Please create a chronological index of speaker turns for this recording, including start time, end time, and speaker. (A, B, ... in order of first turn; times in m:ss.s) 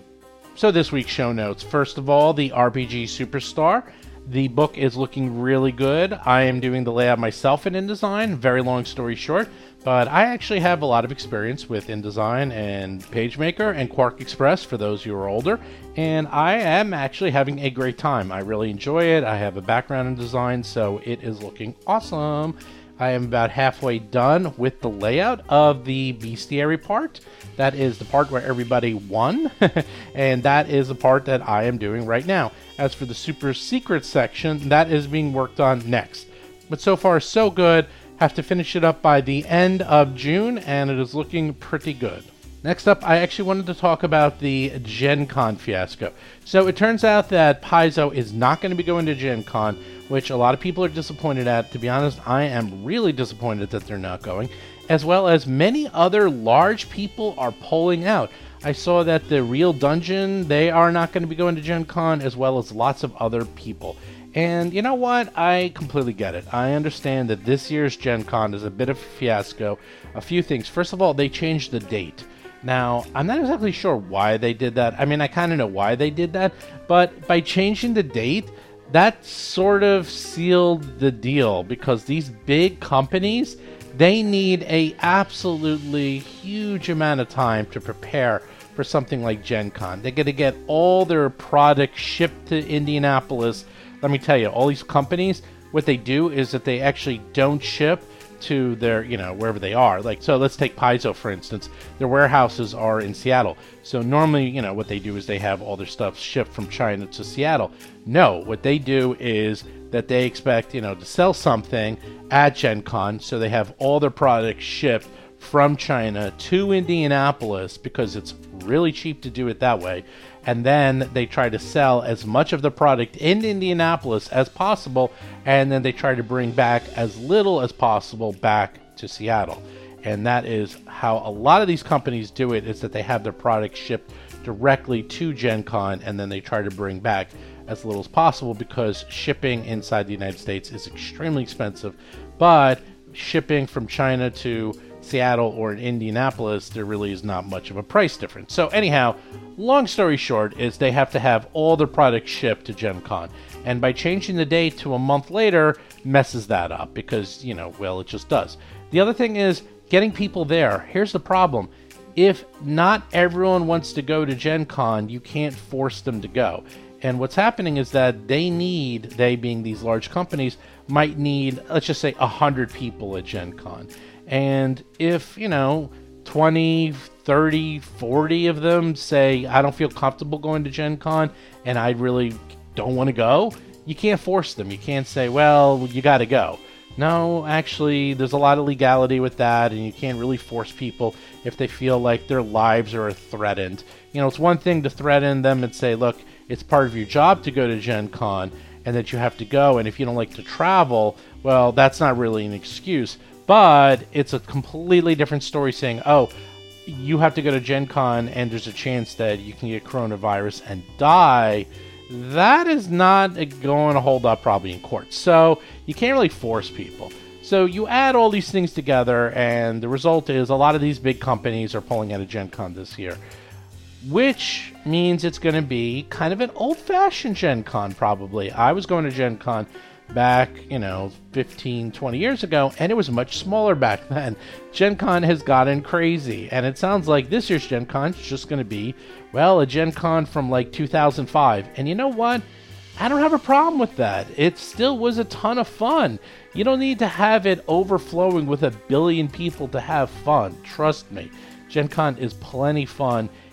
0:00.6-3:26.3 A
3:26.9-3:43.2 A
3:44.0-4:02.4 A
4:03.0-4:13.3 A